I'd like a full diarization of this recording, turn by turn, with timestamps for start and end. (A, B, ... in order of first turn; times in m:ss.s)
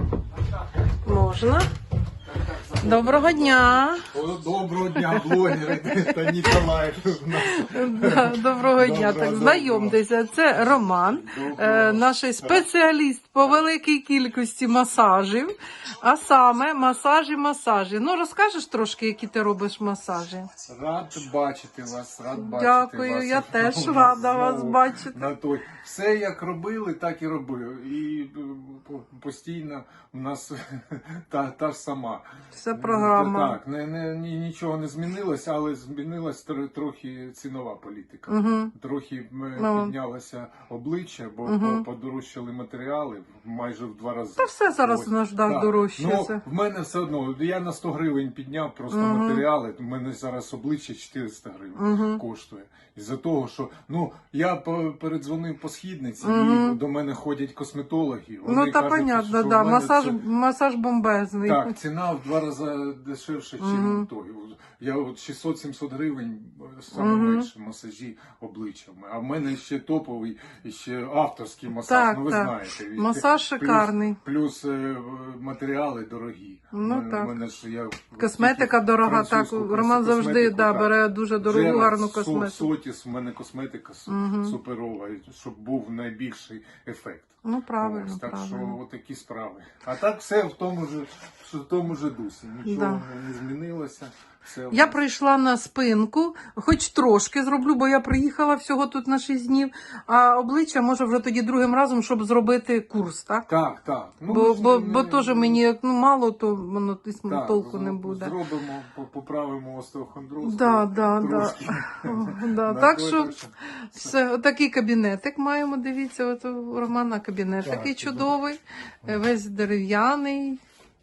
0:01.0-0:01.7 A
0:02.3-0:12.6 B
0:02.8-0:04.1 A
0:05.0-0:06.6 A
0:07.4-0:20.5 A
0:20.6-1:00.2 B
0:22.4-0:25.2 A
0:32.5-0:33.6 A
0:38.3-0:38.7 A
0:39.6-0:39.9 A
0:41.5-0:41.8 A
0:44.4-0:46.4 A
0:48.9-0:49.4 A
0:51.8-0:52.2 A
0:56.2-0:56.8 A
0:58.4-1:01.8 A
1:01.4-1:35.0 B
1:03.6-1:04.1 A
1:06.9-1:07.5 A
1:11.8-1:14.2 A
1:16.7-1:17.4 A
1:18.2-1:22.7 A
1:24.1-1:24.6 A
1:27.4-1:28.8 A
1:32.6-1:33.0 A
1:34.7-1:43.5 A
1:43.5-1:45.6 B
1:44.3-1:48.4 A
1:47.3-1:54.2 B
1:50.4-2:00.6 A
1:57.6-1:58.4 B